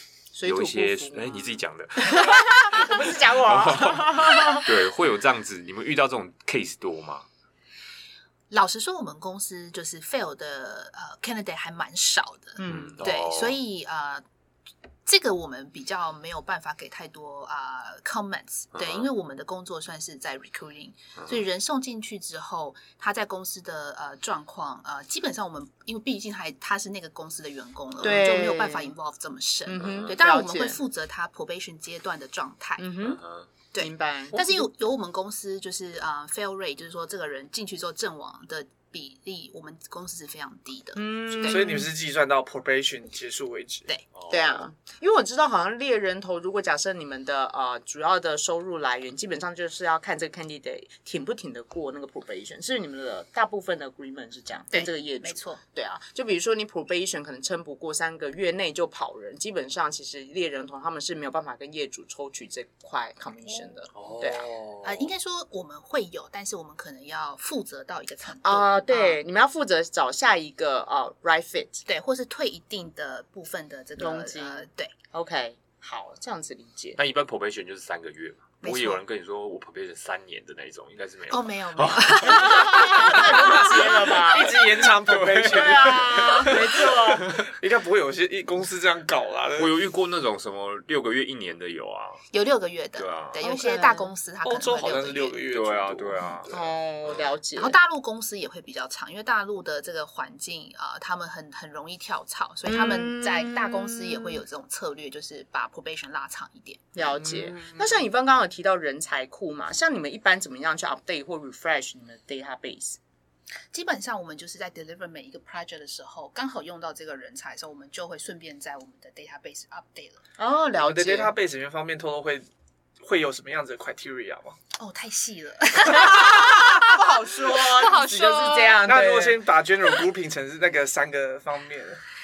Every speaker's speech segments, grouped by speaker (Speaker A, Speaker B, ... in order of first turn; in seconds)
Speaker A: 0.3-4.7, 12.6-12.9, 28.0-28.9, 29.6-30.8, 32.8-33.2, 33.8-34.7, 41.0-41.9, 44.3-64.5, 68.4-71.8, 74.0-77.0, 82.3-84.6, 85.4-87.3, 93.4-94.1, 96.5-97.8, 102.7-104.4, 106.9-113.0, 120.4-121.3, 125.9-129.4
Speaker B: 0.4-7.2, 12.6-13.6, 18.7-19.1, 33.2-33.5, 44.1-44.6, 63.9-65.0, 77.0-83.6, 85.1-86.5, 89.6-92.2, 93.0-93.4, 95.5-96.5
Speaker C: 8.5-14.2, 15.1-32.9, 33.7-41.8, 54.7-55.6, 64.8-69.2, 71.9-74.9, 78.6-79.0, 81.3-84.2, 92.3-95.4, 97.5-107.8, 113.7-120.2, 124.7-128.8
Speaker D: 41.5-43.9, 84.0-89.7, 94.4-96.7, 120.7-122.4, 123.0-124.6, 128.8-132.0